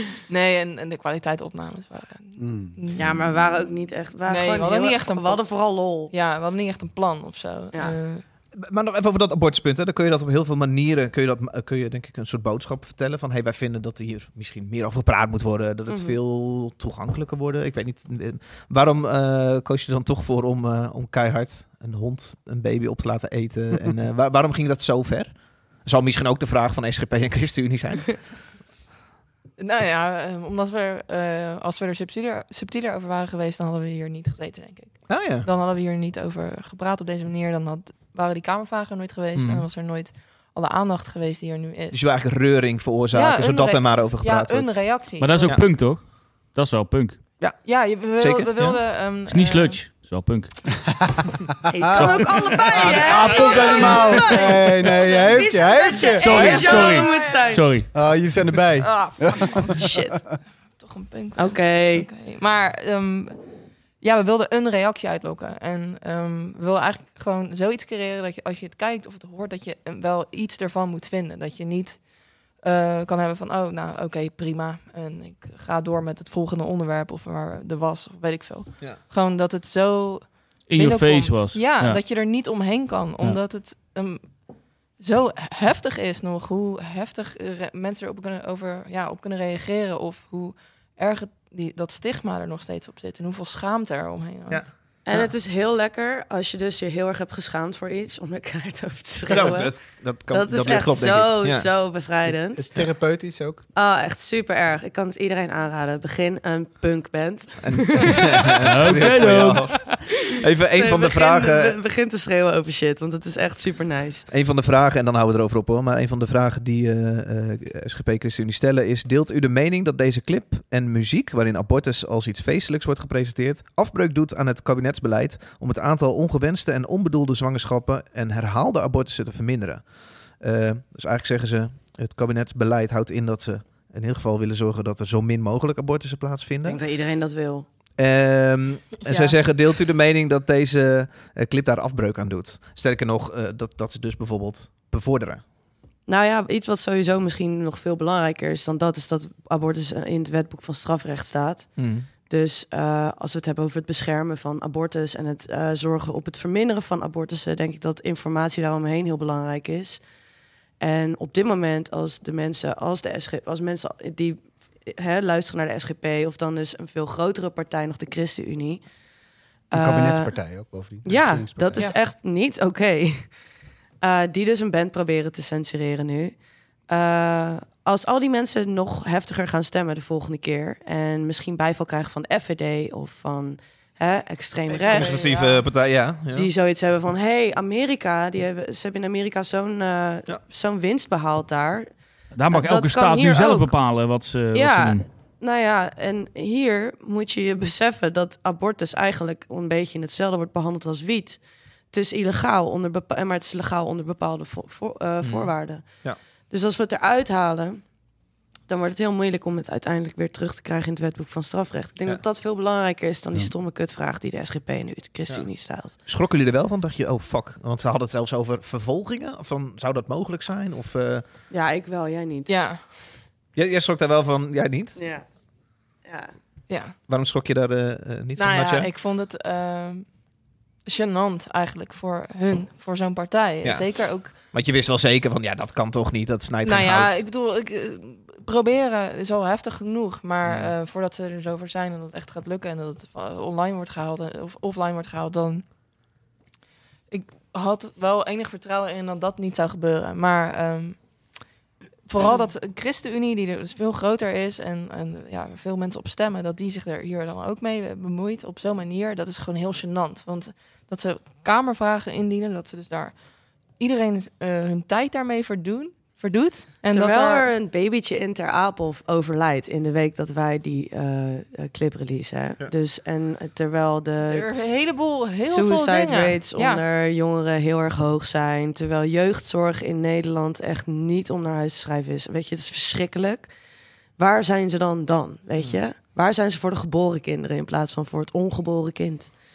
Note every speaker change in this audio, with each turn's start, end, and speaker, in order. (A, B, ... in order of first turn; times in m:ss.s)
0:00.3-0:03.6 A
0:02.4-0:02.8 B
0:02.9-0:06.1 C
0:04.2-0:08.2 A
0:08.5-0:28.3 D
0:15.9-0:16.2 C
0:29.6-0:42.4 A
0:35.1-0:35.5 D
0:39.3-0:39.7 D
0:41.9-0:45.6 D
0:43.1-0:45.6 A
0:45.2-0:47.2 E
0:47.4-0:48.8 D
0:47.6-0:49.8 A
0:49.2-0:50.7 E
0:51.7-0:57.7 C
0:51.8-0:56.6 B
0:51.9-0:53.0 E
0:56.2-0:57.9 E
0:56.3-0:57.0 D
0:56.5-0:57.9 A
0:57.9-1:00.0 B
0:58.8-0:59.6 A
0:59.8-1:00.2 C
1:00.8-1:34.7 A
1:01.4-1:02.1 C
1:20.7-1:22.0 E
1:34.5-1:35.3 D
1:35.0-1:42.7 C
1:39.3-1:41.8 D
1:42.2-1:43.6 B
1:43.7-1:48.2 C
1:47.6-1:51.8 D
1:48.6-1:49.8 E
1:48.8-1:50.1 C
1:50.8-1:54.3 C
1:54.3-2:16.8 D
2:16.6-2:17.7 C
2:18.0-2:25.4 D
2:19.0-2:19.4 C
2:26.0-2:40.1 C
2:31.8-2:32.1 D
2:40.8-2:49.0 C
2:49.7-3:28.0 C
2:49.7-2:51.9 B
3:04.7-3:05.6 A
3:04.9-3:06.5 D
3:12.3-3:15.0 E
3:25.2-3:26.2 D
3:28.6-3:36.0 C
3:35.3-3:41.2 D
3:41.5-3:42.7 C
3:42.5-3:42.8 A
3:43.5-3:45.0 D
3:45.0-3:46.3 C
3:46.7-3:46.9 A
3:47.1-3:48.9 D
3:48.4-3:50.2 A
3:50.8-3:54.3 A
3:53.6-3:57.2 D
3:56.6-4:05.6 A
4:00.4-4:00.7 D
4:07.1-4:11.4 A
4:12.1-4:27.5 A
4:26.9-4:34.5 C
4:34.2-4:36.8 A
4:35.4-4:43.5 C
4:44.1-4:49.3 C